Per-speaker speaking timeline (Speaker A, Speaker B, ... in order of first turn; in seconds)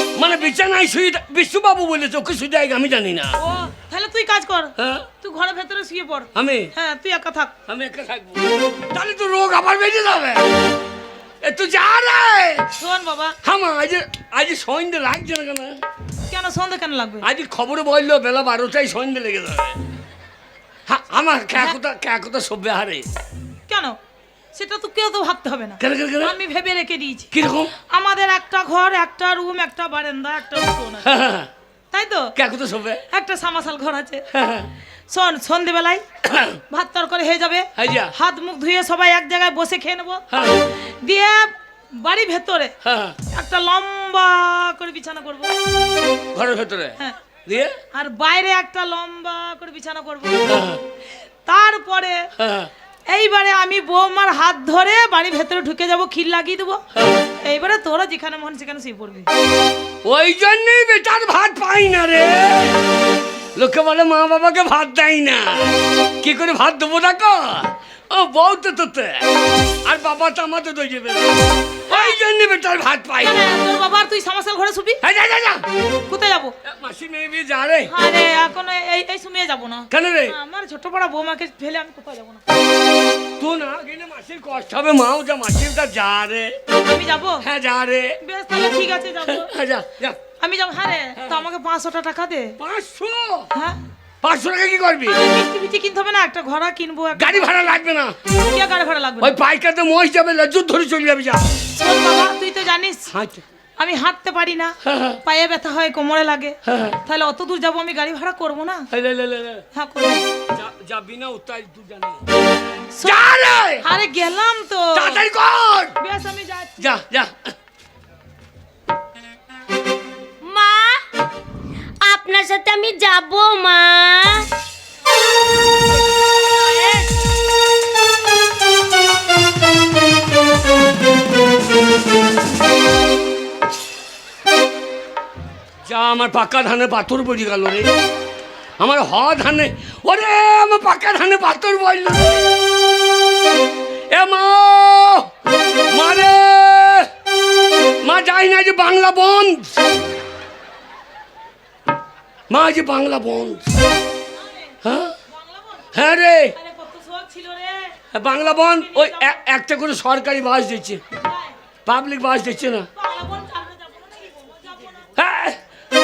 Speaker A: 0.1-3.4, 4.8-5.1, 6.3-6.7, 7.7-10.5, 11.4-12.7, 13.4-15.8, 17.2-19.8, 20.9-23.1, 25.8-26.4, 27.3-27.7, 31.0-31.5, 32.4-33.0, 34.3-34.7, 36.2-36.6, 37.8-38.1, 40.3-40.7, 42.8-43.2, 46.3-47.8, 50.5-50.8, 52.4-52.7, 56.9-57.3, 60.0-62.9, 63.5-69.3, 69.8-73.4, 75.0-75.6, 76.6-77.9, 79.9-80.3, 83.4-86.6, 87.4-88.2, 89.2-90.2, 91.2-91.4, 92.6-93.5, 94.2-95.2, 97.1-98.2, 99.2-101.5, 103.1-103.4, 104.8-105.2, 106.7-107.0, 108.9-109.6, 110.5-112.3, 113.0-113.8, 114.9-116.0, 116.8-117.5, 135.8-137.9, 138.8-143.0, 144.1-145.3, 145.9-147.1, 148.0-149.8, 152.5-153.8, 154.8-155.2, 155.9-156.5, 158.1-161.0, 161.8-162.9, 165.2-165.6
Speaker B: 3.4-7.5, 12.8-13.4, 16.3-17.3, 23.7-24.0, 24.5-31.1, 31.9-32.3, 33.1-34.3, 35.1-36.0, 36.7-40.2, 40.8-42.7, 43.3-45.5, 47.9-50.6, 51.5-52.3, 53.1-56.8, 57.4-59.3, 71.9-72.2, 73.2-75.0, 76.1-76.5, 77.9-82.4, 86.8-87.4, 88.2-89.5, 90.4-92.6, 93.5-93.8, 95.0-97.8, 98.3-99.3, 101.8-103.1, 103.8-108.9, 109.7-110.3, 112.9-113.3, 113.8-115.2, 116.0-116.8, 126.1-127.3, 154.3-155.9, 156.5-159.4, 161.2-161.6, 162.9-165.1
Speaker C: 120.4-121.1, 122.0-124.5